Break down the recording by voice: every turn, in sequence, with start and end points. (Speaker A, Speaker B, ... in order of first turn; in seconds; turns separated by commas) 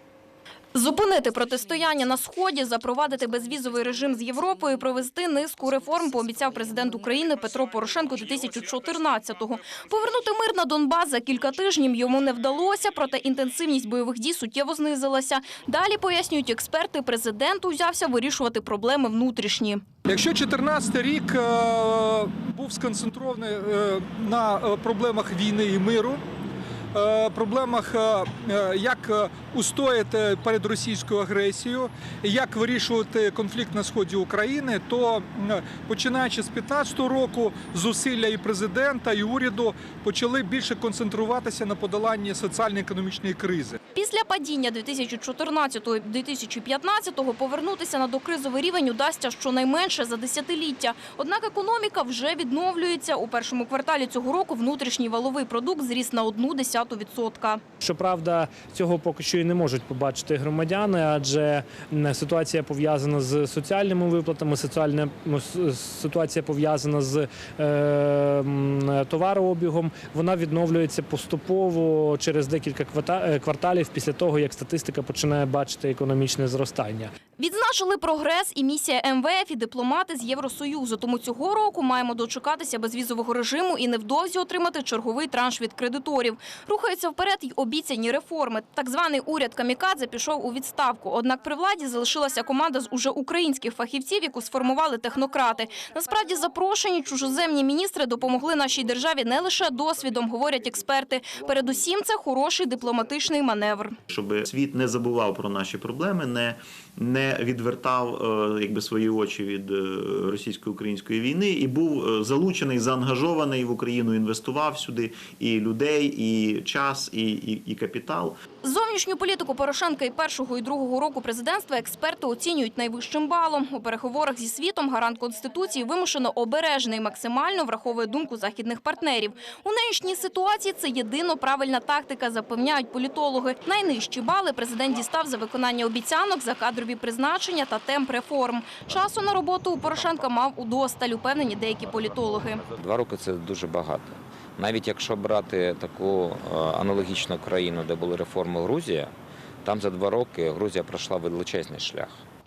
Speaker A: 0.7-19.8, Speaker B: 20.1-26.2, Speaker B: 26.9-43.8, Speaker A: 43.9-57.6, Speaker C: 57.8-77.1, Speaker A: 77.4-104.0, Speaker D: 104.1-118.4, Speaker A: 118.6-142.6, Speaker E: 142.6-149.1, Speaker E: 149.6-152.2